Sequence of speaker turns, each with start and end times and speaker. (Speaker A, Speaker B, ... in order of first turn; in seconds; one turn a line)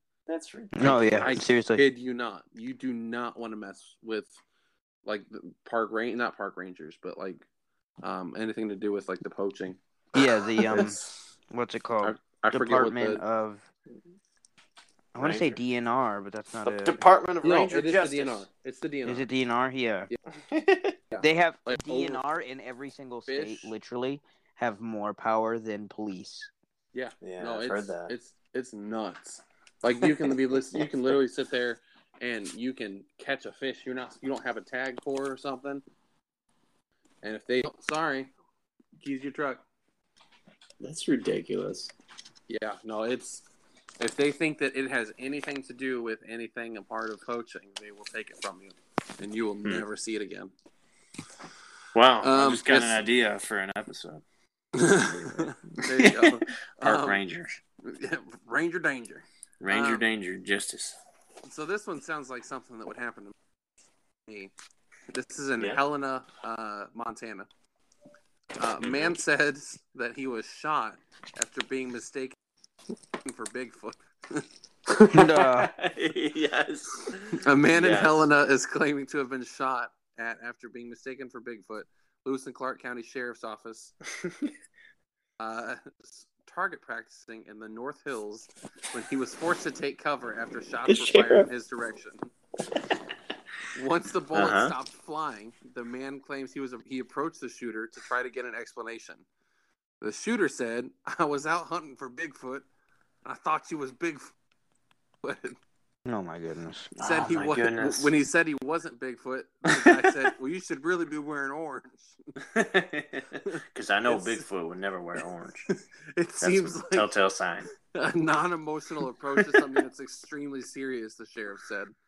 Speaker A: 0.3-1.4
Speaker B: 0.8-1.9
Speaker C: 0.8-4.4
Speaker C: 5.0-7.5
Speaker C: 8.0-9.8
Speaker B: 10.2-11.0
Speaker C: 10.6-11.0
Speaker B: 11.5-13.7
Speaker C: 12.0-13.2
Speaker B: 15.1-17.0
Speaker A: 15.2-15.6
Speaker A: 16.6-18.5
Speaker C: 17.4-19.3
Speaker B: 19.1-20.1
Speaker A: 20.4-21.0
Speaker C: 21.1-22.2
Speaker B: 21.2-26.5
Speaker C: 23.3-23.7
Speaker C: 26.9-35.8
Speaker A: 27.2-28.1
Speaker A: 30.2-30.8
Speaker C: 37.2-38.3
Speaker C: 39.0-39.6
Speaker A: 40.8-41.9
Speaker C: 42.5-43.5
Speaker C: 44.0-50.5
Speaker A: 52.0-54.2
Speaker C: 52.2-53.1
Speaker C: 54.8-57.2
Speaker A: 55.4-57.6
Speaker C: 57.8-60.1
Speaker A: 59.6-61.0
Speaker C: 61.5-63.3
Speaker C: 64.3-64.5
Speaker C: 65.1-67.5
Speaker C: 68.6-72.4
Speaker A: 68.8-69.2
Speaker C: 73.2-74.5
Speaker A: 74.9-78.3
Speaker B: 75.1-75.7
Speaker C: 77.4-84.0
Speaker A: 84.2-84.5
Speaker C: 85.4-92.3
Speaker A: 90.9-91.5
Speaker C: 93.8-99.2
Speaker A: 94.3-94.7
Speaker C: 100.0-102.7
Speaker C: 103.2-104.3
Speaker C: 105.2-105.6
Speaker B: 106.1-106.9
Speaker A: 107.0-108.1
Speaker C: 107.0-112.4
Speaker A: 109.7-110.1
Speaker A: 112.4-115.7
Speaker C: 113.5-114.4
Speaker C: 115.7-117.1
Speaker A: 116.4-117.7
Speaker C: 117.8-121.9